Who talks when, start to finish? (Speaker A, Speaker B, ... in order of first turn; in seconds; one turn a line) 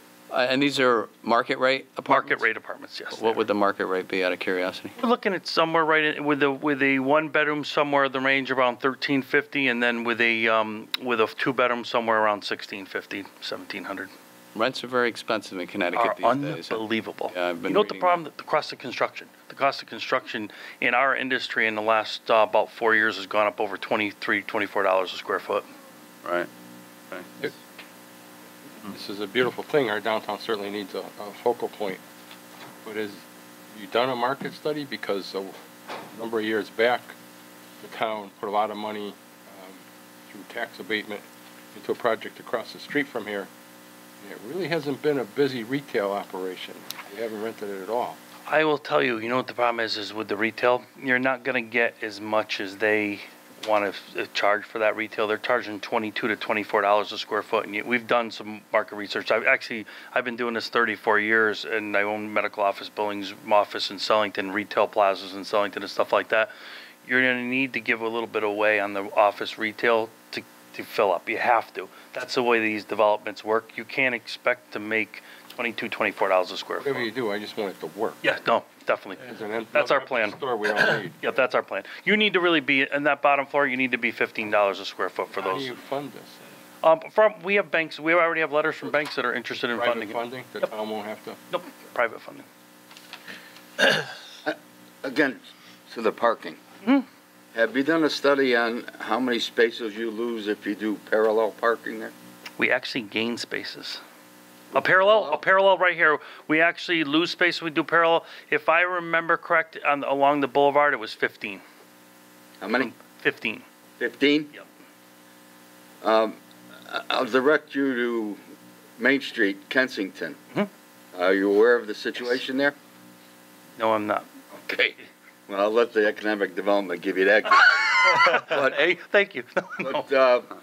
Speaker A: 0.3-2.4
Speaker B: 2.1-3.4
Speaker A: 3.1-5.0
Speaker B: 5.0-14.1
Speaker A: 14.5-18.2
Speaker B: 15.9-25.6
Speaker A: 26.2-26.5
Speaker A: 27.1-27.5
Speaker C: 28.8-32.0
Speaker C: 32.8-35.6
Speaker C: 36.1-37.1
Speaker C: 37.8-43.5
Speaker C: 44.2-48.2
Speaker B: 48.5-66.5
Speaker B: 67.0-77.1
Speaker C: 76.8-78.2
Speaker B: 78.2-85.8
Speaker C: 79.2-81.2
Speaker C: 85.3-86.4
Speaker B: 86.8-90.7
Speaker C: 89.7-91.4
Speaker B: 91.5-92.5
Speaker D: 94.4-96.6
Speaker D: 97.5-102.1
Speaker B: 102.6-104.0
Speaker B: 104.7-111.6
Speaker D: 112.6-112.9
Speaker B: 112.7-113.6
Speaker D: 114.0-114.5
Speaker D: 116.0-118.4
Speaker D: 119.0-120.4
Speaker D: 121.1-122.8
Speaker B: 123.8-124.3
Speaker D: 124.7-128.8
Speaker B: 128.0-130.0
Speaker D: 129.8-130.5